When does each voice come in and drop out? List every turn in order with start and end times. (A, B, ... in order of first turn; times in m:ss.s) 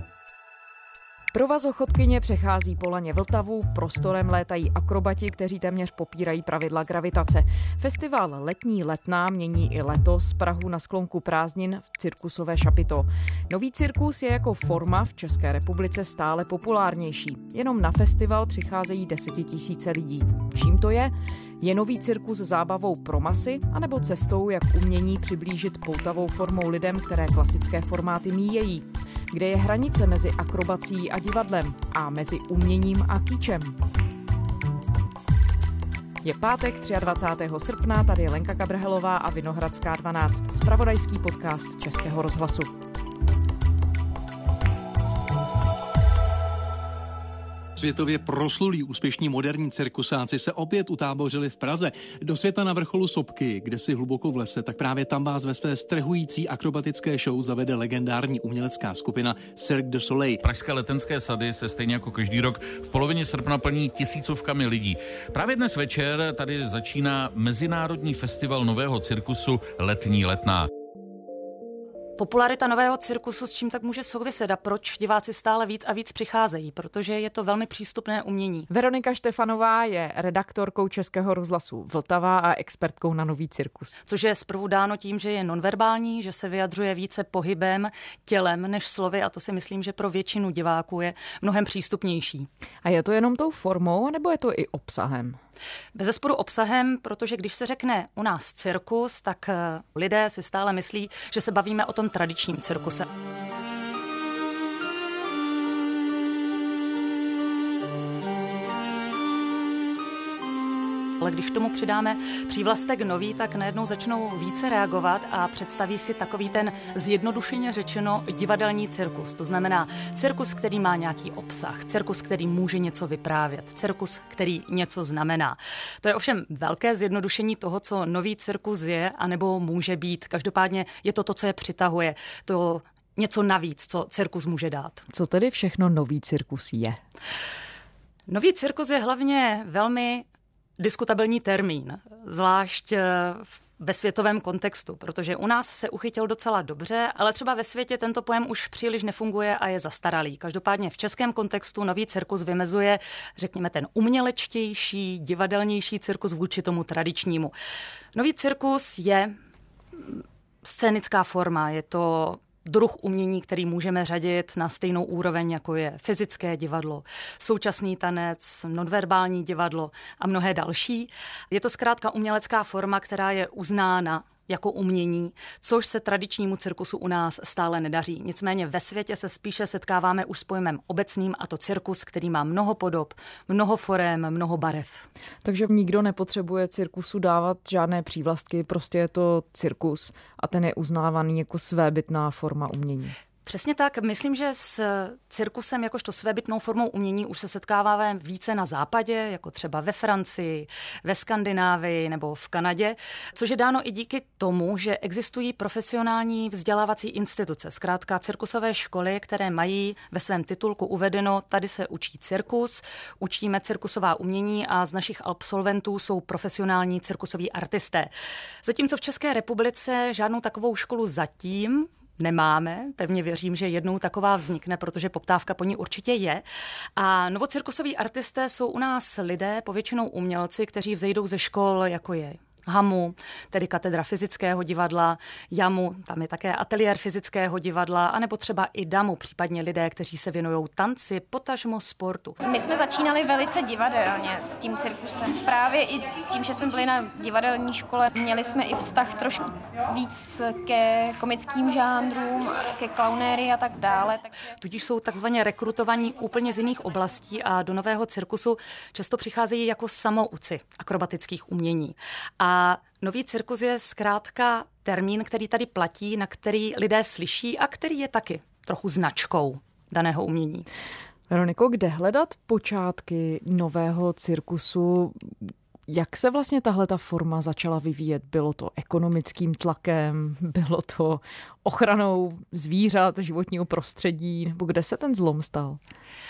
0:01.3-0:33.8 A
0:36.2-0:42.7 A
0:47.8-1:00.4 B
1:00.4-1:10.7 C
1:12.2-1:18.7 D
1:18.7-1:23.9 A
1:24.1-1:32.5 D
1:32.8-1:35.4 A
1:35.9-1:43.1 D
1:51.2-2:15.0 D
2:15.1-2:17.0 A
2:18.3-2:20.3 D
2:20.8-2:37.5 D
2:38.1-2:39.4 D
2:40.6-3:05.1 D
3:05.4-3:13.2 A
3:13.4-3:38.1 D
3:38.6-3:46.4 D
3:47.0-4:02.4 D
4:02.4-4:14.3 E
4:14.6-4:30.7 D
4:31.3-4:45.8 A